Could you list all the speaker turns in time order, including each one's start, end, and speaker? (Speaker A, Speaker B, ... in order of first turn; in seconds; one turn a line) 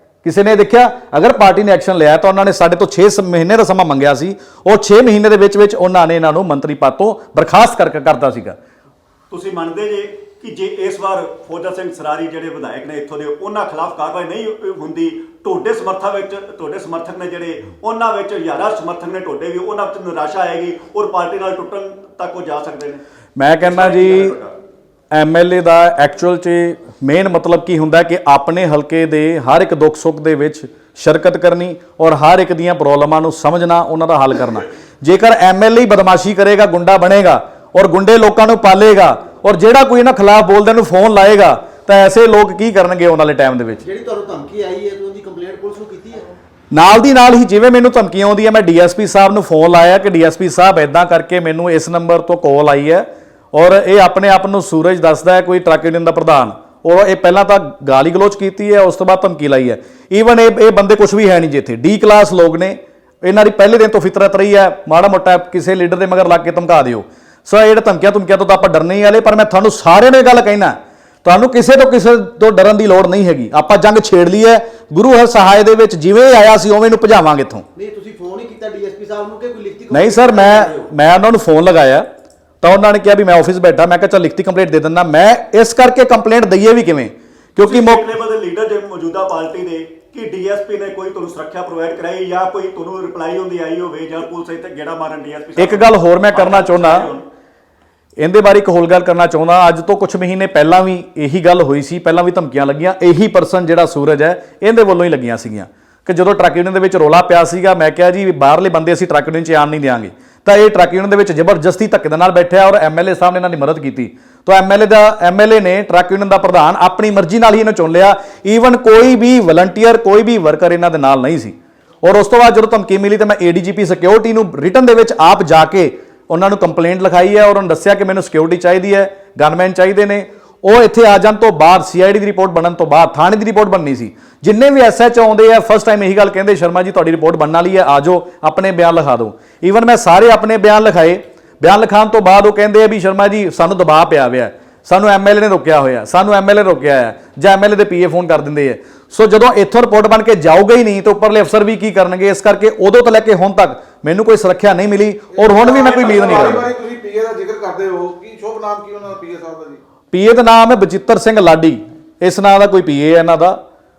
Speaker A: 0.2-8.6
Speaker B: 9.3-23.0
Speaker A: 23.4-24.4
Speaker B: 23.6-24.5
Speaker A: 25.1-43.8
Speaker C: 43.8-46.3
Speaker A: 46.7-77.7
Speaker C: 77.8-80.8
Speaker A: 79.9-82.1
Speaker A: 82.6-88.0
Speaker B: 87.6-97.3
Speaker A: 95.6-97.1
Speaker A: 98.2-156.7
Speaker D: 155.4-159.8
Speaker A: 160.1-163.6